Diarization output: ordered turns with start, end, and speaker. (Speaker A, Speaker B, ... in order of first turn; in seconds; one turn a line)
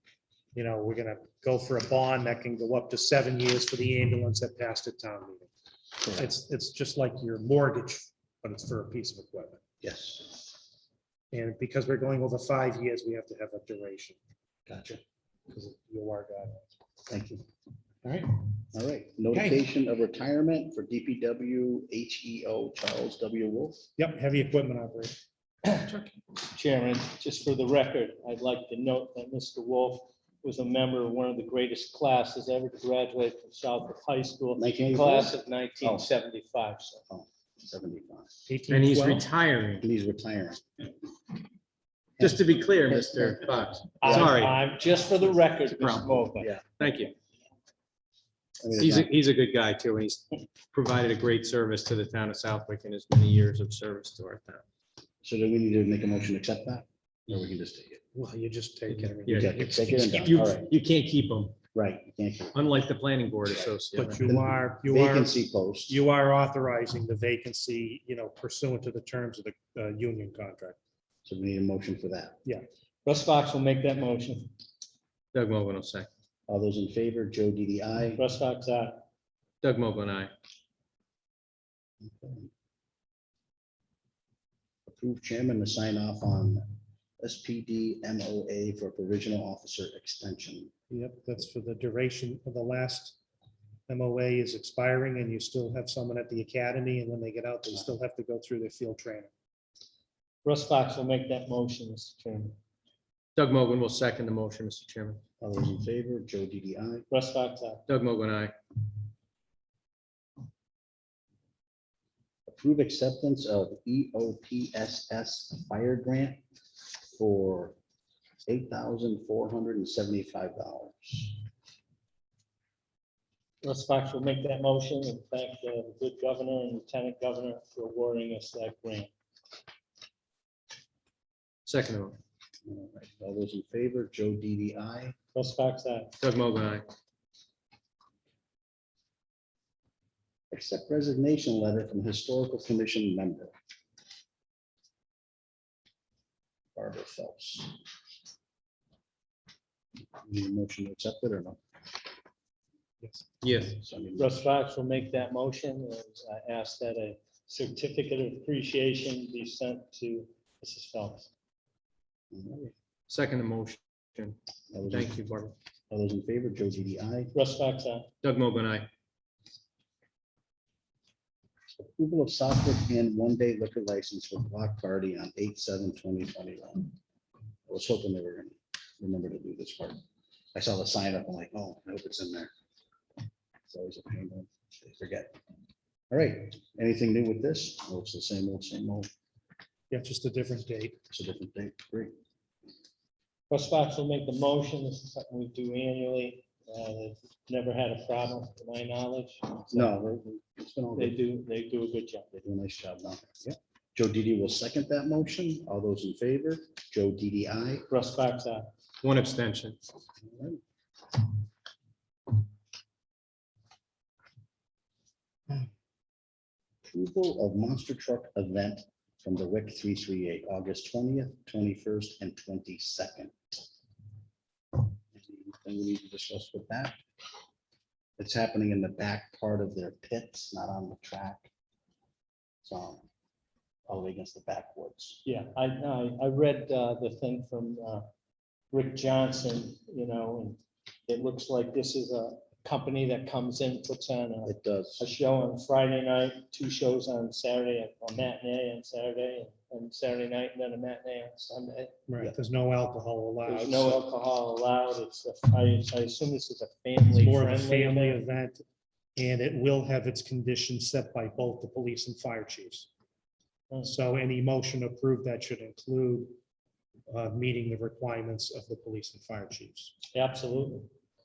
Speaker A: 0.5-5.5
Speaker B: 6.0-6.3
Speaker A: 6.2-9.6
Speaker B: 9.8-10.5
Speaker A: 11.3-14.2
Speaker B: 14.7-15.0
Speaker A: 15.5-16.7
Speaker B: 17.1-17.4
Speaker B: 18.7-23.8
Speaker A: 24.0-25.2
Speaker C: 25.6-37.0
Speaker B: 34.6-36.1
Speaker B: 37.1-38.3
Speaker A: 38.5-39.2
Speaker D: 38.7-39.8
Speaker B: 39.8-40.9
Speaker B: 42.2-44.4
Speaker D: 42.2-44.6
Speaker C: 44.0-46.5
Speaker D: 45.7-46.2
Speaker B: 46.2-46.7
Speaker D: 46.8-47.1
Speaker B: 48.6-49.1
Speaker D: 48.8-54.6
Speaker B: 55.2-58.0
Speaker A: 58.1-60.3
Speaker D: 58.9-61.6
Speaker B: 59.3-60.7
Speaker B: 61.7-62.6
Speaker D: 62.5-64.2
Speaker A: 63.9-65.3
Speaker B: 64.2-66.0
Speaker A: 65.9-70.8
Speaker B: 71.2-72.4
Speaker C: 73.0-74.5
Speaker D: 75.3-76.1
Speaker B: 76.5-78.2
Speaker C: 78.2-79.0
Speaker D: 79.6-80.3
Speaker B: 82.0-82.5
Speaker B: 84.8-86.6
Speaker B: 87.2-90.7
Speaker A: 90.9-93.2
Speaker A: 93.9-99.3
Speaker C: 100.4-102.5
Speaker D: 103.3-105.2
Speaker B: 105.4-107.1
Speaker C: 107.1-107.8
Speaker D: 107.9-108.5
Speaker B: 112.5-116.4
Speaker B: 117.1-117.8
Speaker B: 118.5-121.4
Speaker C: 123.6-129.1
Speaker D: 131.7-132.2
Speaker B: 132.6-135.1
Speaker C: 135.3-136.1
Speaker D: 136.2-136.8
Speaker B: 140.5-143.5
Speaker B: 146.7-147.8
Speaker B: 150.2-151.6
Speaker D: 153.4-153.8
Speaker B: 153.7-154.3
Speaker C: 154.2-161.3
Speaker B: 162.3-162.7
Speaker D: 163.1-164.4
Speaker B: 164.7-165.2
Speaker D: 164.9-165.5
Speaker B: 165.9-167.3
Speaker C: 167.3-168.1
Speaker D: 168.2-168.9
Speaker B: 171.8-176.9
Speaker B: 177.7-180.0
Speaker B: 180.5-182.5
Speaker B: 183.7-185.4
Speaker B: 186.1-189.1
Speaker A: 189.9-191.0
Speaker B: 191.1-192.1
Speaker C: 193.5-199.9
Speaker B: 199.7-201.2
Speaker C: 200.9-202.3
Speaker B: 202.3-207.9
Speaker C: 207.9-208.7
Speaker D: 209.0-209.8
Speaker B: 210.3-210.6
Speaker B: 216.8-223.6
Speaker B: 225.1-227.0
Speaker B: 228.2-231.5
Speaker B: 232.6-233.0
Speaker B: 233.9-235.2
Speaker C: 235.2-238.1
Speaker C: 238.7-252.0
Speaker B: 244.4-245.1
Speaker A: 252.1-254.0
Speaker C: 253.4-258.2
Speaker A: 257.2-258.6
Speaker A: 259.1-262.9
Speaker A: 263.8-266.4
Speaker A: 267.1-269.9
Speaker C: 270.1-270.9